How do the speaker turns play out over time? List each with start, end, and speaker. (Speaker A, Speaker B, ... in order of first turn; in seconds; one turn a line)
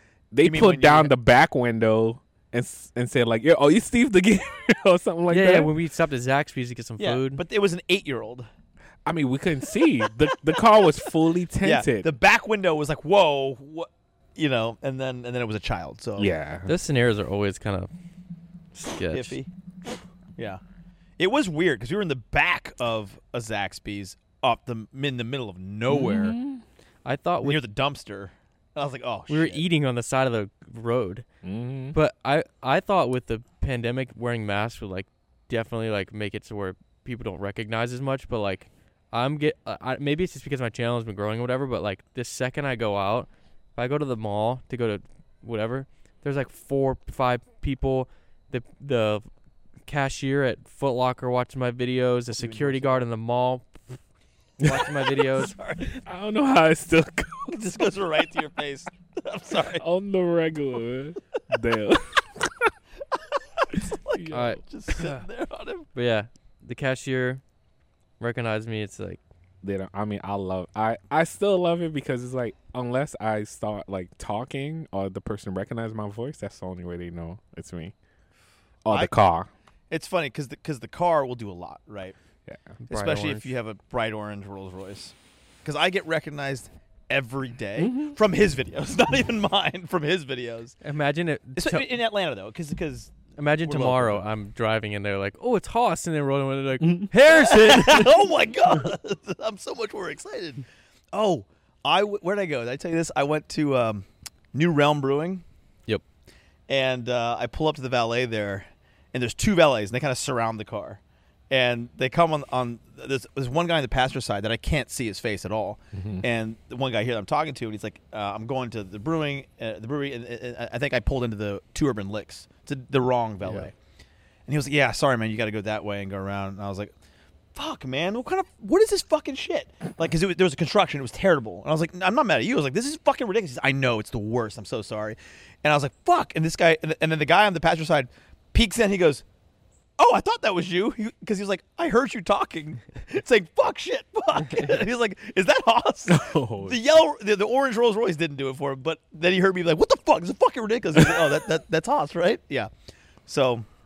Speaker A: 0.3-5.7
Speaker B: 0.4-1.1
Speaker C: 5.3-7.4
Speaker B: 7.0-8.5
Speaker A: 9.1-12.1
Speaker B: 10.0-11.1
Speaker B: 11.6-16.3
Speaker A: 16.2-16.7
Speaker C: 16.7-17.9
Speaker C: 18.7-19.4
Speaker B: 19.1-19.5
Speaker B: 21.2-26.4
Speaker A: 25.9-26.6
Speaker C: 27.1-27.6
Speaker B: 27.4-29.6
Speaker C: 29.3-31.2
Speaker A: 31.4-32.0
Speaker C: 31.9-49.3
Speaker C: 49.9-54.0
Speaker B: 52.4-53.1
Speaker C: 54.6-55.5
Speaker B: 55.1-56.0
Speaker A: 56.0-57.9
Speaker B: 57.5-59.8
Speaker A: 59.8-62.7
Speaker B: 63.5-65.9
Speaker A: 63.7-64.6
Speaker C: 64.3-65.2
Speaker C: 66.0-67.4
Speaker C: 68.2-69.2
Speaker A: 69.6-78.0
Speaker A: 78.8-79.5
Speaker B: 79.9-82.2
Speaker A: 82.5-82.8
Speaker C: 82.8-83.5
Speaker B: 82.9-90.8
Speaker A: 87.8-88.2
Speaker C: 90.8-91.9
Speaker B: 91.6-94.2
Speaker C: 93.4-98.2
Speaker B: 97.3-105.4
Speaker B: 106.7-111.0
Speaker B: 111.5-123.7
Speaker A: 115.9-116.2
Speaker B: 124.5-126.9
Speaker B: 127.5-139.2
Speaker B: 140.0-152.7
Speaker A: 146.1-146.8
Speaker B: 153.3-153.7